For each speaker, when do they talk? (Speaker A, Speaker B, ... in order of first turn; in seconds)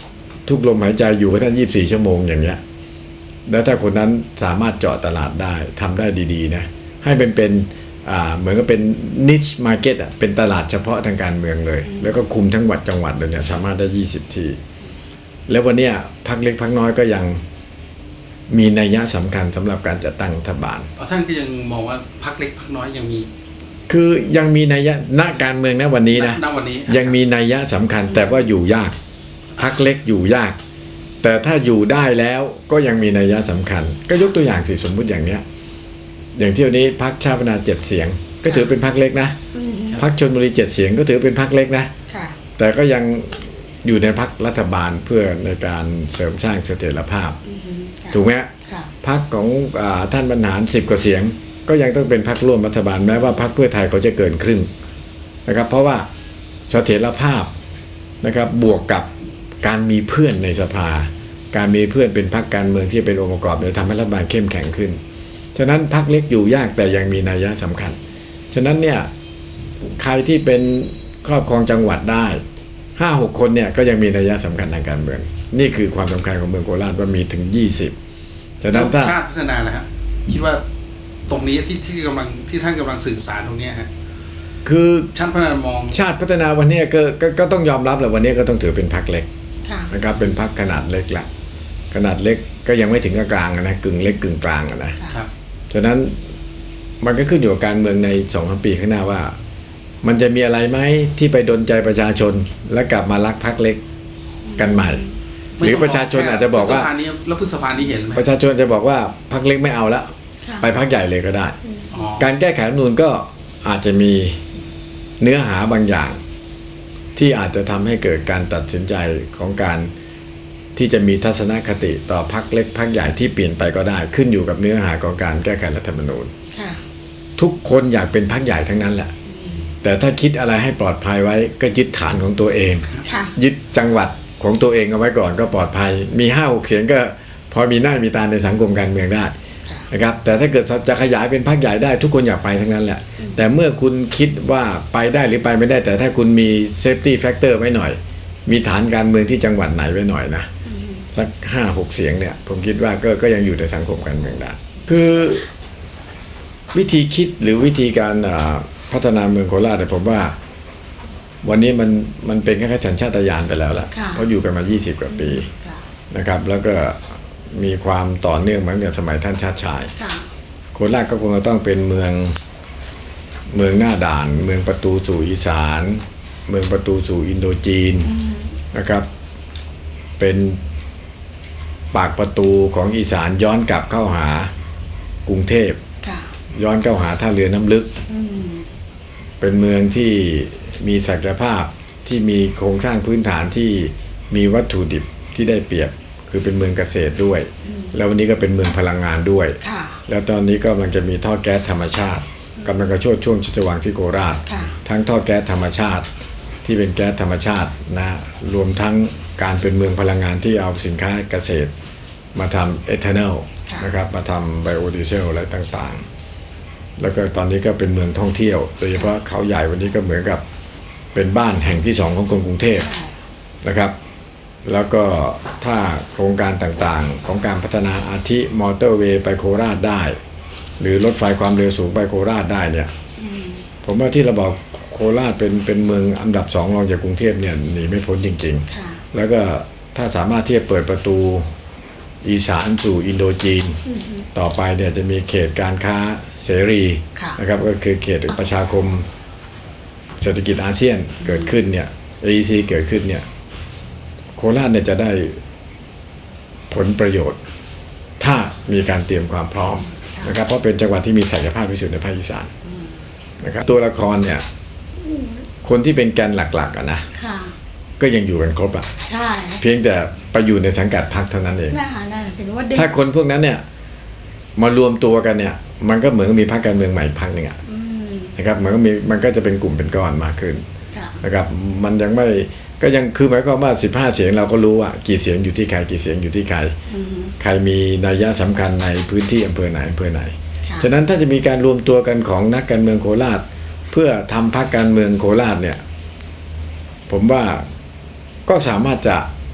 Speaker A: 0.5-2.6, 3.5-14.6, 15.5-17.4, 18.5-20.9, 23.9-28.9, 29.6-30.6, 31.2-35.4, 36.4-39.4, 39.9-41.9, 42.6-47.4, 48.1-48.5, 49.0-54.7, 55.5-56.1, 56.7-57.5, 58.2-59.1, 59.6-65.0, 65.5-68.0, 68.5-69.1, 70.0-72.4, 73.0-77.9, 78.6-79.2, 84.6-85.1, 85.9-89.3, 89.9-91.3, 91.9-95.0, 95.7-96.2, 97.0-99.3, 100.0-103.8, 104.6-105.1, 105.6-106.9, 108.1-111.6, 112.2-114.4, 115.2-116.2, 117.2-119.9, 120.8-126.3, 127.4-129.1, 129.8-139.3, 139.9-150.5, 151.1-155.5, 156.7-160.4, 161.4-165.5, 166.1-169.9, 170.7-172.4, 173.5-178.1, 178.7-179.1, 180.2-180.6, 181.9-184.5, 185.2-185.8, 186.6-187.9, 189.4-206.1, 206.6-211.7, 212.3-216.0, 217.0-220.4, 221.1-222.9, 223.6-223.9, 224.6-230.2, 230.8-232.9, 233.8-241.5, 242.2-249.1, 250.2-253.2, 254.3-255.4, 256.7-257.4, 258.2-262.5, 263.4-264.4, 265.6-267.1, 268.0-268.9, 269.6-271.8, 272.7-273.6, 274.6-277.6, 278.4-280.6, 281.2-286.7, 287.4-295.8, 297.1-297.6, 298.5-299.3
Speaker B: 20.9-23.3, 26.1-27.2, 78.7-80.6, 81.3-83.9, 85.1-86.0, 105.5-108.3, 111.9-112.2
Speaker C: 39.5-40.0, 42.1-42.4, 47.4-48.9, 89.6-89.9, 104.5-105.1, 126.5-126.8, 129.3-129.7, 133.0-133.3, 150.6-151.1, 163.9-164.3, 165.1-165.8, 169.9-170.3, 178.1-178.6, 186.0-186.3, 188.1-188.7, 197.6-197.9, 199.6-200.0, 202.6-202.8, 204.4-204.8, 222.8-223.2, 233.2-233.7, 238.7-239.0, 243.9-244.2, 251.3-251.5, 259.9-260.3, 262.6-263.0, 265.0-265.4, 267.1-267.6, 269.0-269.6, 271.7-272.9, 277.6-278.4, 280.9-281.2, 286.9-287.4